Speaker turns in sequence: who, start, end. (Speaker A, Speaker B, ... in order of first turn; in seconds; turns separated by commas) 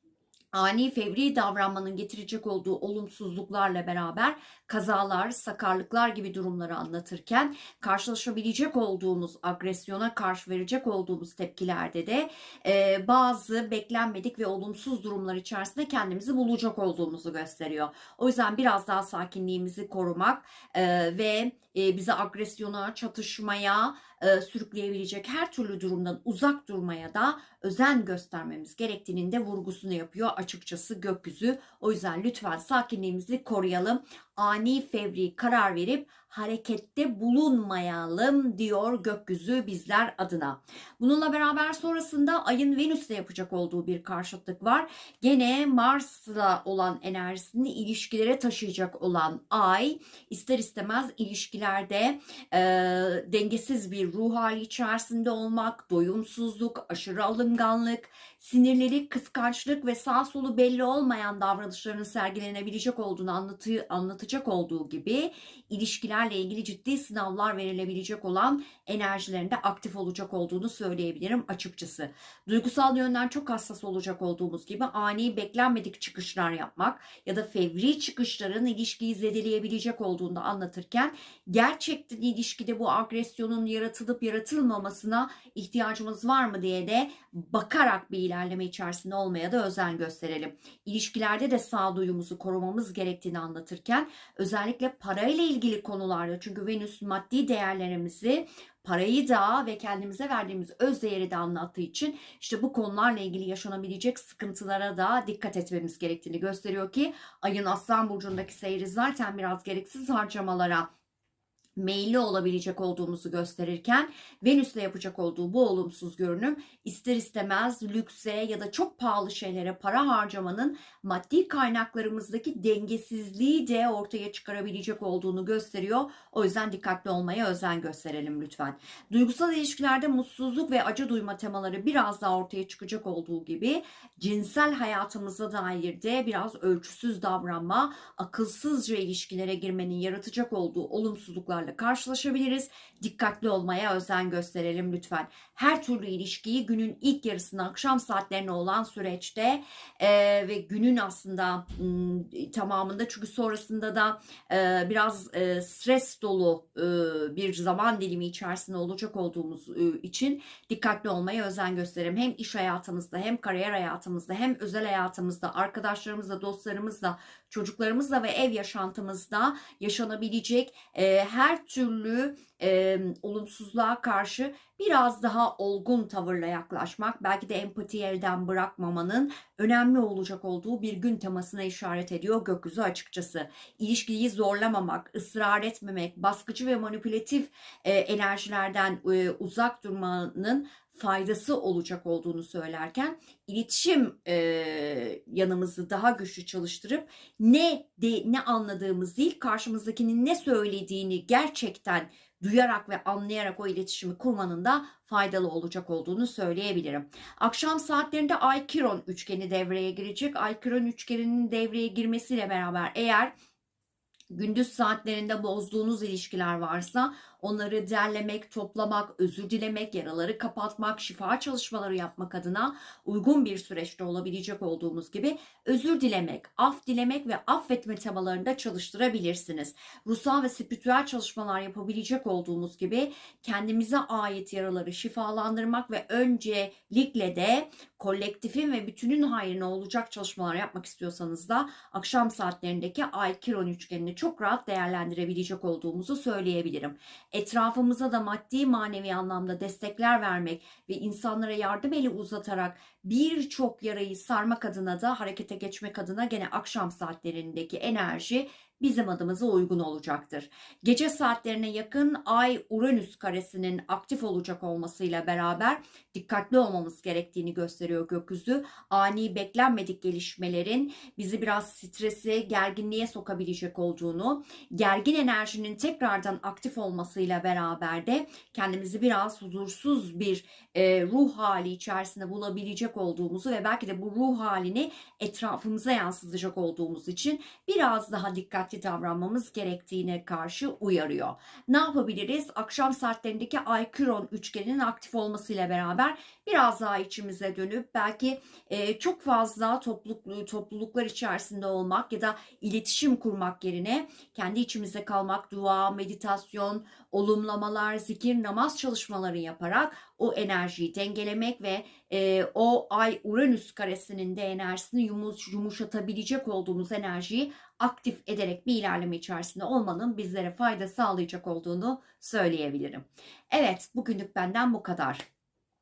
Speaker A: 0.5-110.9, Speaker A: 111.8-213.3, Speaker A: 214.3-325.2